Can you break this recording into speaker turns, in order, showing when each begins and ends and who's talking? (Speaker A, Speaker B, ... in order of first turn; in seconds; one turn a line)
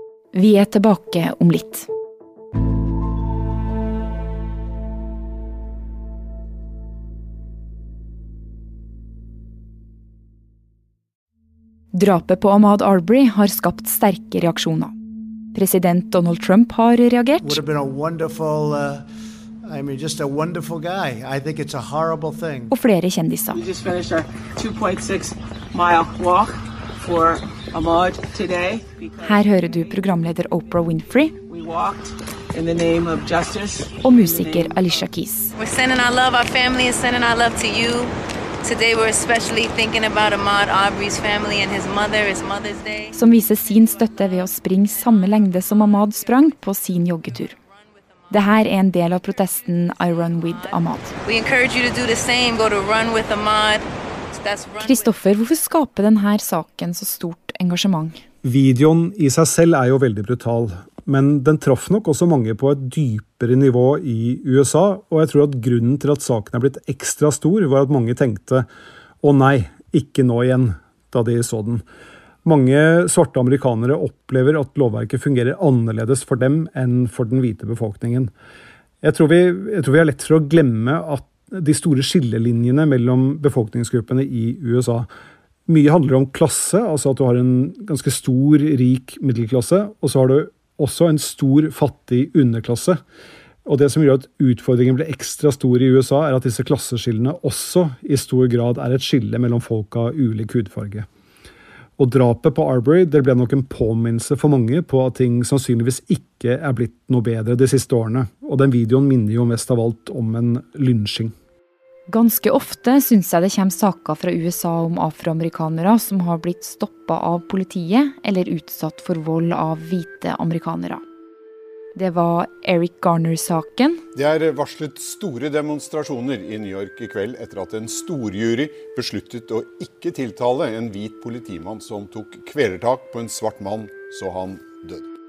Speaker A: 0.3-1.9
Speaker A: 11.9-14.9
Speaker A: 15.5-17.6
Speaker B: 17.4-19.0
Speaker B: 19.6-22.7
Speaker A: 22.7-23.6
Speaker C: 23.5-29.5
Speaker A: 29.2-31.3
Speaker C: 31.5-34.8
Speaker A: 34.0-35.5
Speaker D: 35.6-43.1
Speaker A: 43.1-47.5
Speaker A: 48.3-51.1
Speaker D: 51.2-55.1
Speaker A: 54.8-58.2
Speaker E: 58.4-68.7
Speaker E: 69.2-71.8
Speaker E: 72.4-78.3
Speaker E: 79.0-85.1
Speaker E: 85.7-93.0
Speaker E: 93.7-101.0
Speaker E: 102.0-111.3
Speaker A: 112.1-121.0
Speaker A: 121.9-124.0
Speaker F: 124.1-135.1